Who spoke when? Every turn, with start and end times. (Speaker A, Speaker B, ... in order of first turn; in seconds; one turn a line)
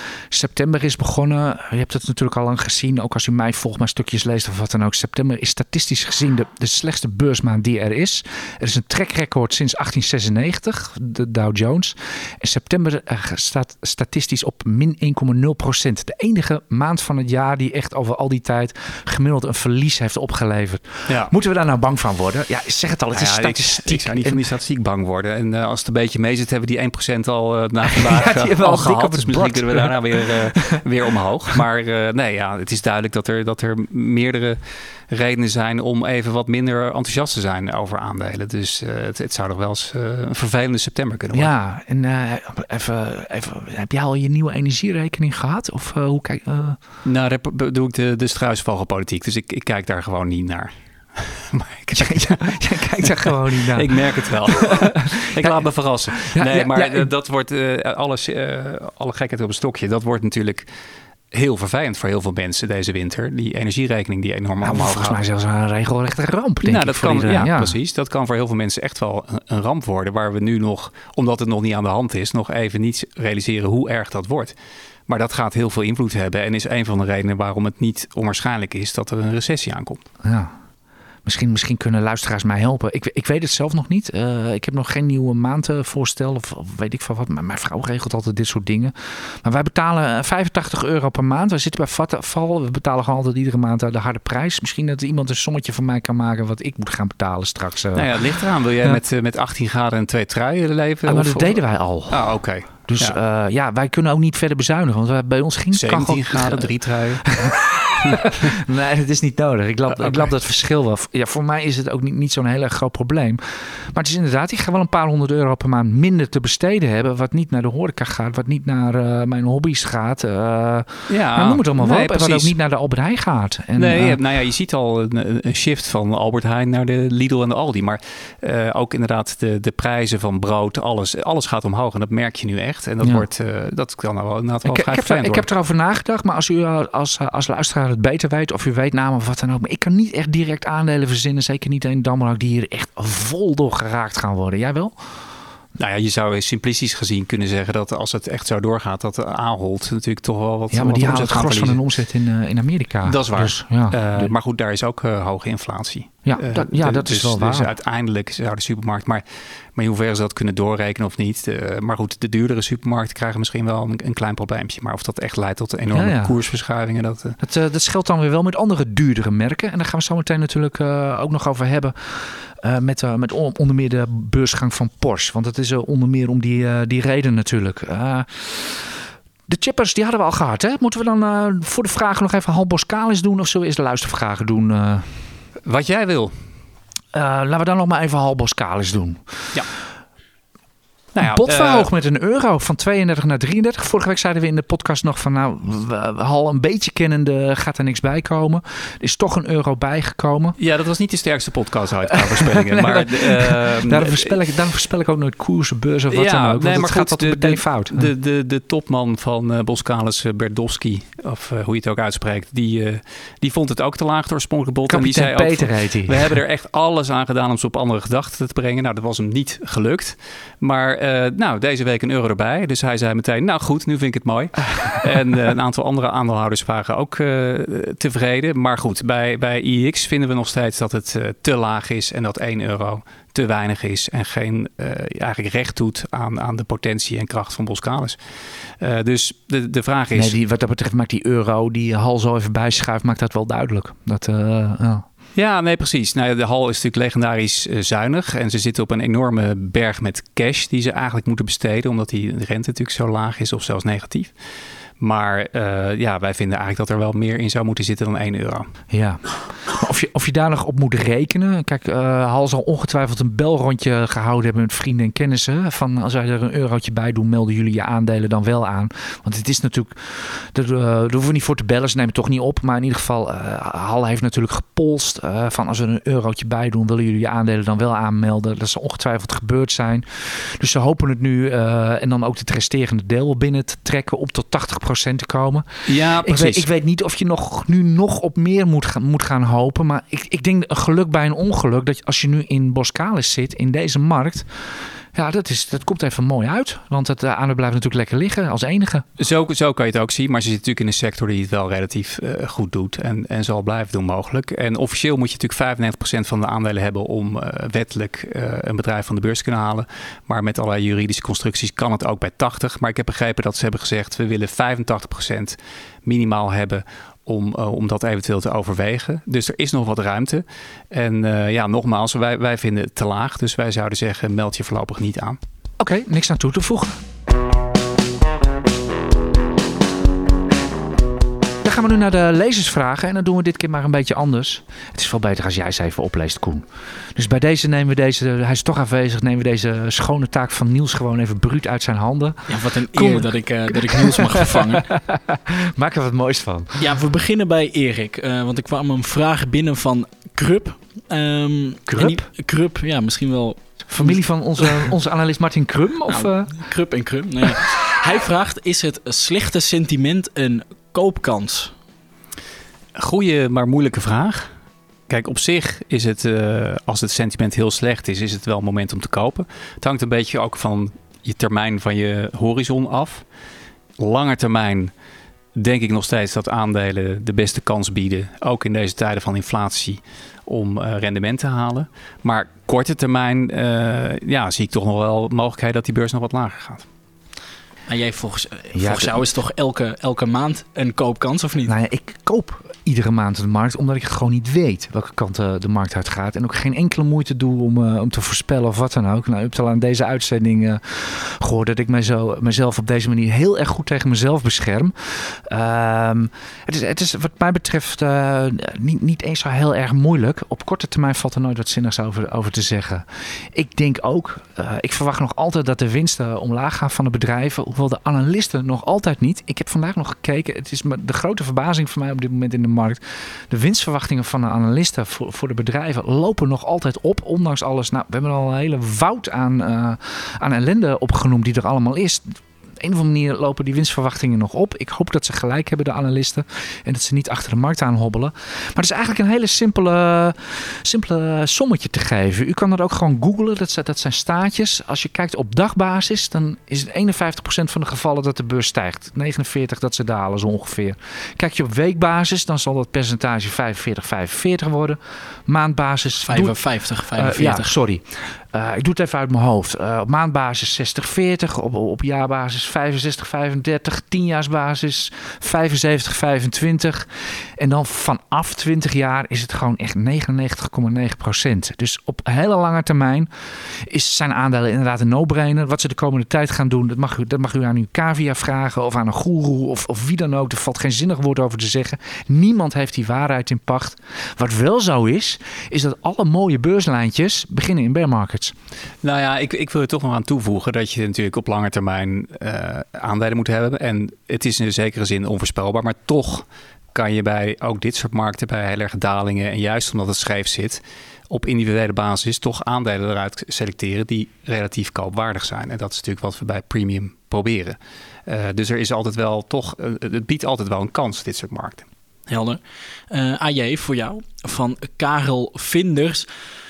Speaker A: 0.3-24.4
Speaker B: 23.1-41.5
Speaker A: 27.8-30.8
Speaker A: 41.3-46.8
Speaker B: 47.0-60.7
Speaker A: 52.0-57.1
Speaker B: 61.3-65.2
Speaker A: 64.6-67.7
Speaker B: 66.6-74.5
Speaker B: 75.1-80.0
Speaker A: 80.2-80.5
Speaker A: 81.2-99.0
Speaker B: 97.9-103.2
Speaker A: 101.0-124.2
Speaker B: 105.7-108.5
Speaker B: 109.9-110.3
Speaker B: 121.1-122.5
Speaker B: 123.8-135.4
Speaker A: 134.6-144.9
Speaker B: 145.8-151.8
Speaker A: 150.7-154.3
Speaker B: 153.0-159.2
Speaker A: 156.2-157.7
Speaker B: 159.7-167.4
Speaker A: 165.9-166.3
Speaker A: 167.4-185.2
Speaker B: 185.6-186.3
Speaker A: 187.1-189.5
Speaker B: 191.1-191.9
Speaker A: 191.2-200.6
Speaker B: 200.6-204.4
Speaker A: 202.1-208.1
Speaker B: 206.1-238.2
Speaker A: 214.9-216.3
Speaker B: 238.8-240.3
Speaker A: 240.1-245.0
Speaker B: 245.3-254.3
Speaker B: 255.0-258.7
Speaker A: 258.9-299.1
Speaker B: 285.9-286.7
Speaker B: 299.2-325.4
Speaker A: 325.8-327.0
Speaker A: 331.6-346.8
Speaker C: 342.5-344.9
Speaker C: 346.8-354.9
Speaker A: 351.9-352.2
Speaker A: 353.9-356.5
Speaker C: 356.1-361.7
Speaker B: 362.9-364.5
Speaker B: 365.1-373.2
Speaker B: 374.0-374.9
Speaker B: 375.5-386.9
Speaker C: 387.9-391.7
Speaker A: 388.7-389.2
Speaker A: 391.6-456.6
Speaker C: 456.2-457.7
Speaker A: 457.1-488.5
Speaker B: 489.0-511.8
Speaker C: 512.3-516.2